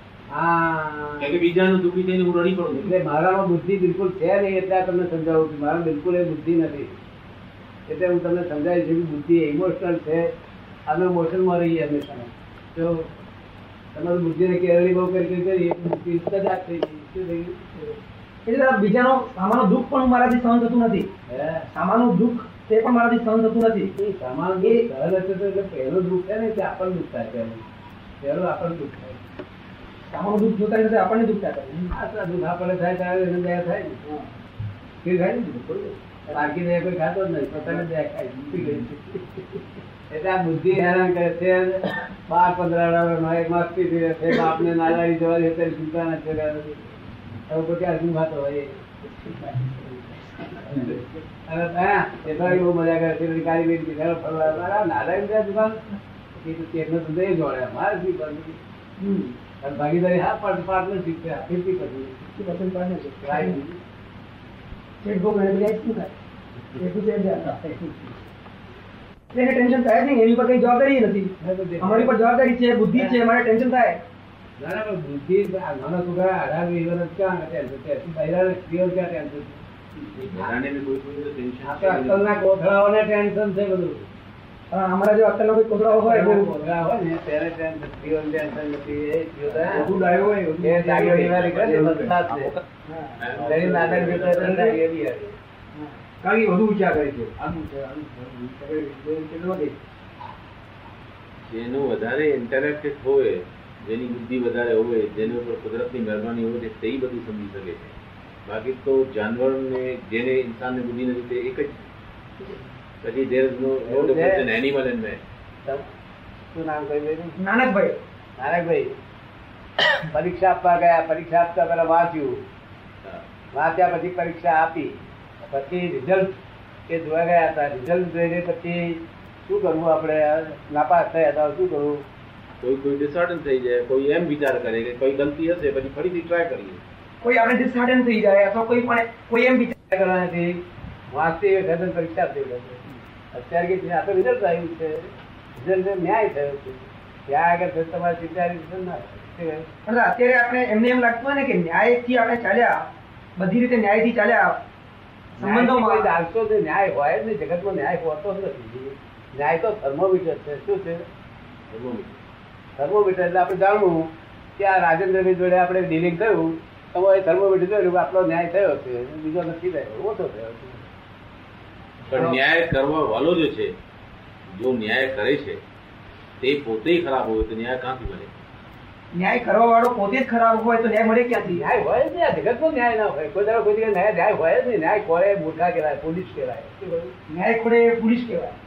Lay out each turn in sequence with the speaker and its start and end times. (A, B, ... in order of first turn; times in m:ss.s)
0:00.3-0:01.3 A
0:01.2-0:02.9 B
0:02.7-0:06.9 A
0:07.9-0:10.3 A
0:10.9-0:13.1 A
0:13.9-0:17.6 A
0:18.4-0:21.1 C
0:21.3-0:21.7 A
0:21.7-0:23.9 C
0:24.0-0:27.6 A
0:28.2-0:29.2 A
0:30.1-0:31.9 C
0:31.9-0:34.0 A
0:35.0-0:39.4 A
0:40.1-0:46.8 A
0:47.5-0:48.8 A
0:49.2-0:49.8 C
0:50.6-0:55.8 A
0:56.3-0:58.6 A
0:59.0-0:59.3 C
0:59.6-1:02.2 A
1:02.2-1:03.6 C
1:03.2-1:03.8 A
1:05.0-1:06.1 C
1:06.8-1:07.9 C
1:09.3-1:14.0 C
1:11.4-1:12.2 A
1:12.9-1:13.2 A
1:14.6-1:19.6 A
1:20.1-1:22.3 B
1:21.6-1:24.0 A
1:24.7-1:26.5 C
1:25.9-1:29.9 A
1:29.7-1:32.1 D
1:30.6-1:32.6 A
1:32.3-1:32.6 C
1:32.9-1:33.2 D
1:33.2-1:34.5 B
1:33.4-1:35.3 A
1:34.2-1:34.8 D
1:35.8-1:39.8 D
1:41.5-1:47.9 B
1:48.4-1:51.8 B
1:53.0-1:55.2 B
1:53.8-1:54.4 A
1:56.5-1:57.4 A
1:57.4-1:58.0 C
1:58.4-1:59.0 A
2:00.1-2:02.4 A
2:03.5-2:06.4 A
2:06.9-2:12.0 A
2:12.6-2:16.8 B
2:17.2-2:19.7 C
2:19.9-2:29.7 A
2:29.8-2:32.8 C
2:33.4-2:34.6 C
2:35.4-2:41.0 A
2:35.4-2:36.1 C
2:41.7-2:42.2 B
2:42.8-2:50.9 A
2:52.1-2:53.7 B
2:54.5-2:55.6 B
2:56.4-2:58.3 B
2:59.1-3:01.6 C
3:01.5-3:07.1 A
3:07.3-3:08.6 C